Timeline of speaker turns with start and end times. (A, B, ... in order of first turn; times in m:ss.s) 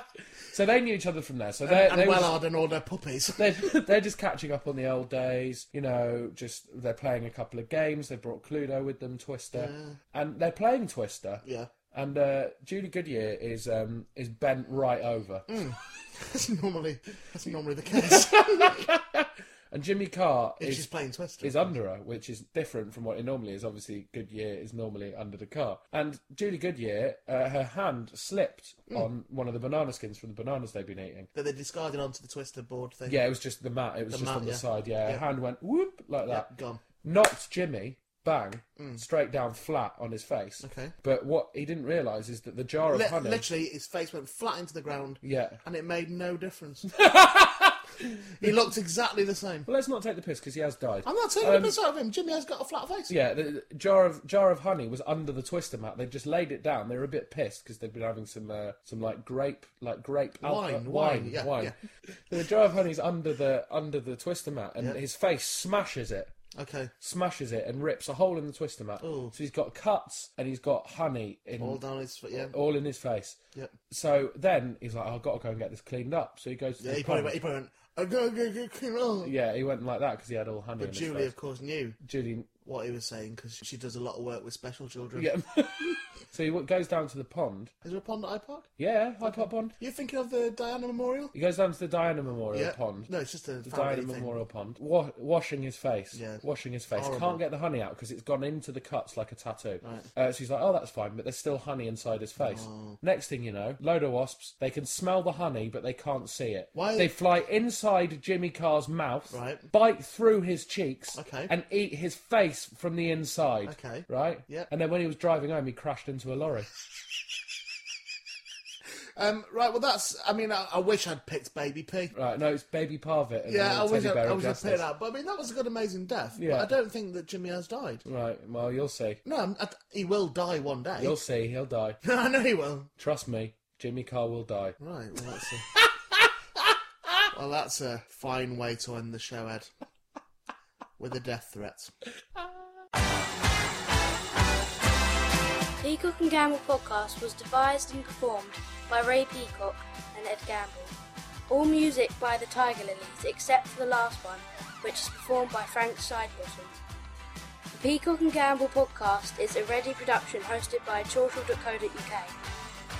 0:00.5-0:02.4 A
0:01.6-0:03.7 B
0:03.4-0:15.6 A
0:09.5-0:10.0 B
0:11.4-0:11.7 B
0:15.5-0:18.9 B
0:18.0-0:20.9 A
0:20.6-0:21.7 B
0:21.4-0:31.3 A
0:31.4-0:33.2 B
0:33.1-0:36.5 A
0:34.1-0:35.2 B
0:36.3-0:36.8 B
0:37.0-0:43.4 A
0:38.8-0:39.0 B
0:40.6-0:40.9 B
0:42.9-0:46.9 B
0:45.2-0:45.6 A
0:46.9-0:48.5 A
0:48.3-0:49.7 B
0:49.7-0:51.8 A
0:51.0-0:53.1 B
0:53.1-1:06.4 A
1:00.4-1:01.8 B
1:06.5-1:06.9 B
1:07.0-1:11.8 A
1:09.0-1:09.3 B
1:11.6-1:12.6 B
1:12.3-1:17.4 A
1:16.8-1:19.3 B
1:19.2-1:21.3 A
1:20.8-1:22.0 B
1:22.0-1:22.5 A
1:22.6-1:25.3 B
1:25.2-1:27.7 A
1:27.8-1:28.7 B
1:28.8-1:29.8 A
1:29.2-1:31.3 B
1:31.3-1:33.1 A
1:32.5-1:34.4 B
1:33.6-1:56.7 A
1:36.1-1:36.4 B
1:36.9-1:37.4 B
1:42.4-1:43.0 B
1:46.7-1:47.1 B
1:49.3-1:49.6 B
1:51.2-1:51.5 B
1:53.7-1:54.7 B
1:59.2-2:02.1 B
2:02.1-2:04.8 A
2:03.5-2:08.0 B
2:06.4-2:06.7 A
2:08.0-2:09.2 A
2:09.2-2:11.2 B
2:11.0-2:12.0 A
2:12.0-2:12.9 B
2:13.0-2:14.8 A
2:14.8-2:15.7 B
2:17.3-2:19.7 B
2:21.0-2:21.9 B
2:25.8-2:31.0 C
2:31.5-2:36.8 C
2:37.8-2:42.4 C